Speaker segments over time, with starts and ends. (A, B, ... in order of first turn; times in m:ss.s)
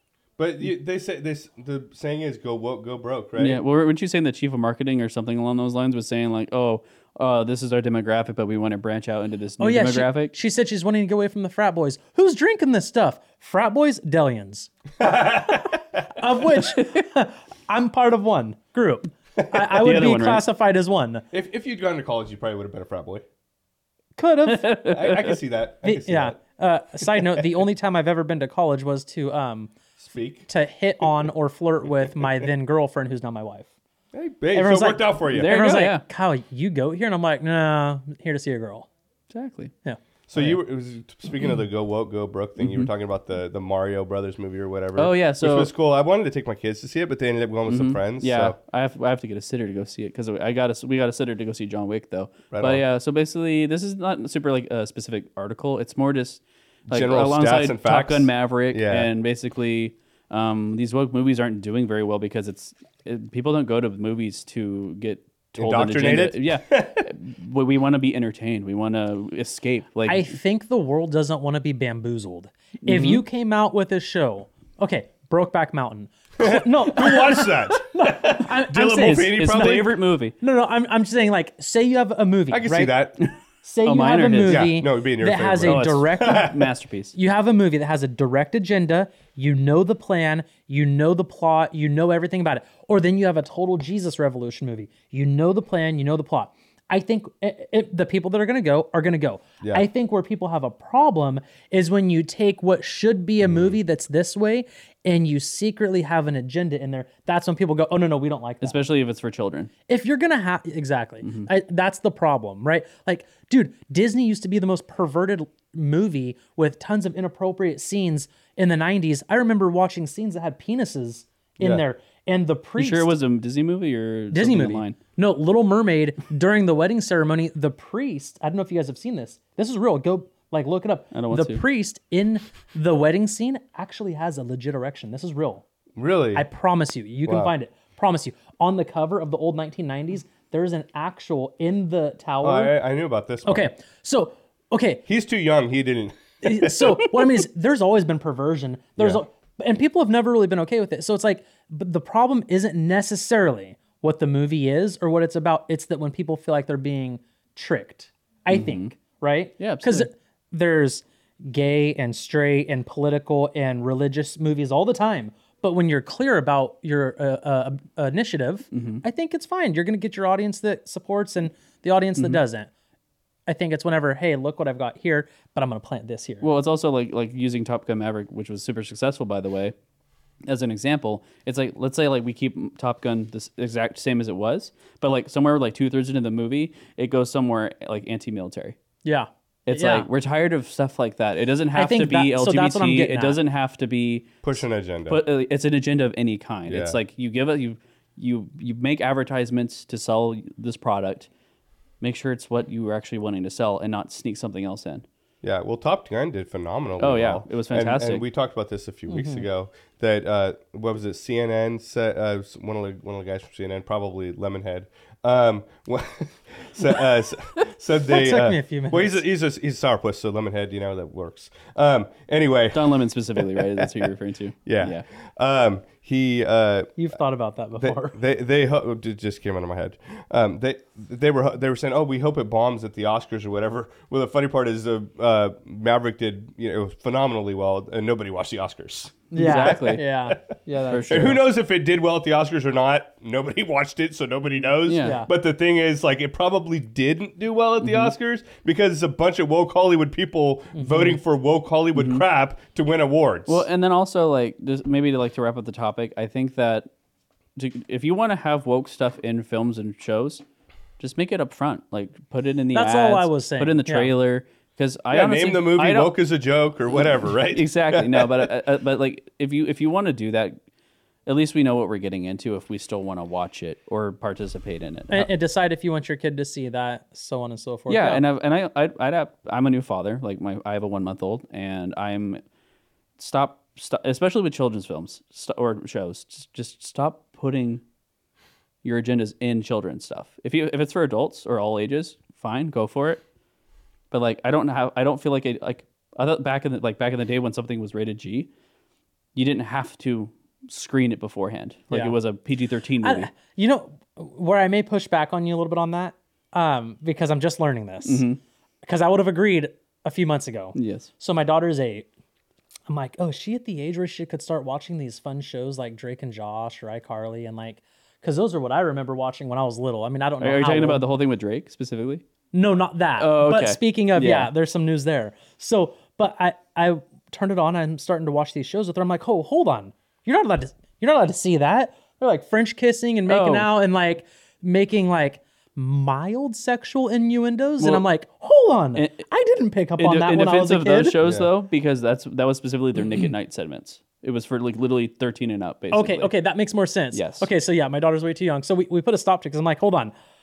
0:00.4-0:03.6 A
0:03.4-0:10.3 B
0:09.6-0:21.3 C
0:15.0-0:15.8 A
0:19.8-0:20.4 B
0:21.3-0:23.2 A
0:24.2-0:24.8 C
0:24.6-0:25.2 B
0:24.8-0:26.4 A
0:25.8-0:29.7 C
0:30.0-0:30.5 A
0:30.5-0:33.7 C
0:34.1-0:35.6 A
0:34.5-0:38.9 C
0:35.3-0:36.0 B
0:39.3-0:39.7 B
0:39.8-0:40.5 C
0:40.3-0:48.6 A
0:42.6-0:42.9 B
0:45.0-0:45.7 B
0:47.7-1:10.3 B
0:52.5-0:52.8 A
0:56.9-0:59.1 A
1:05.6-1:07.1 A
1:10.1-1:23.0 C
1:12.8-1:13.2 B
1:16.4-1:19.9 A
1:19.0-1:20.4 B
1:22.5-1:23.2 A
1:23.6-1:26.5 C
1:23.8-1:24.7 B
1:24.5-1:26.7 A
1:25.6-1:27.1 B
1:27.1-1:48.8 C
1:39.6-1:39.9 A
1:43.4-1:43.8 A
1:48.6-1:49.7 B
1:49.9-2:03.1 C
1:51.2-1:51.5 B
2:02.8-2:05.0 B
2:04.3-2:15.6 C
2:11.1-2:11.6 B
2:16.0-2:16.4 A
2:16.4-2:22.8 C
2:17.2-2:17.5 A
2:22.4-2:23.7 A
2:23.5-2:25.0 C
2:25.1-2:27.1 A
2:26.4-2:52.7 C
2:38.5-2:38.9 B
2:39.6-2:40.1 B
2:48.7-2:49.0 B
2:53.5-2:56.5 C
2:56.4-2:59.8 B
3:00.5-3:08.8 B
3:09.0-3:10.1 C
3:09.7-3:14.5 B
3:11.8-3:13.4 C
3:14.4-3:15.2 A
3:15.1-3:21.3 B
3:16.7-3:17.0 A
3:22.0-3:25.0 B
3:25.4-3:44.1 A
3:27.0-3:28.2 B
3:29.1-3:29.4 C
3:38.0-3:39.2 C
3:42.7-3:45.0 B
3:44.7-3:47.0 A
3:47.0-3:48.2 C
3:47.8-4:00.4 A
3:59.3-4:01.4 C
3:59.4-4:00.0 B
4:00.9-4:01.4 B
4:01.1-4:13.7 A
4:04.9-4:05.2 B
4:05.0-4:05.3 C
4:07.8-4:08.1 B
4:10.8-4:11.2 C
4:12.0-4:12.2 B
4:13.5-4:16.9 B
4:17.6-4:20.4 B
4:21.0-4:26.2 B
4:22.7-4:24.1 C
4:25.1-4:28.5 A
4:27.4-4:30.6 B
4:31.3-4:35.3 B
4:35.1-4:38.2 C
4:37.9-4:42.4 B
4:43.2-4:47.8 B
4:48.8-4:53.2 B
4:54.1-4:58.5 B
4:59.4-5:03.3 B
5:01.9-5:02.2 C
5:03.0-5:08.2 C
5:08.0-5:08.4 B
5:08.9-5:12.1 C
5:10.8-5:11.1 B
5:12.9-5:21.0 C
5:20.4-5:22.2 B
5:22.5-5:41.2 C
5:23.2-5:24.5 B
5:33.3-5:33.7 B
5:39.0-5:39.3 B
5:40.0-5:46.3 B
5:41.2-5:41.5 A
5:45.9-5:50.1 C
5:47.1-5:47.5 B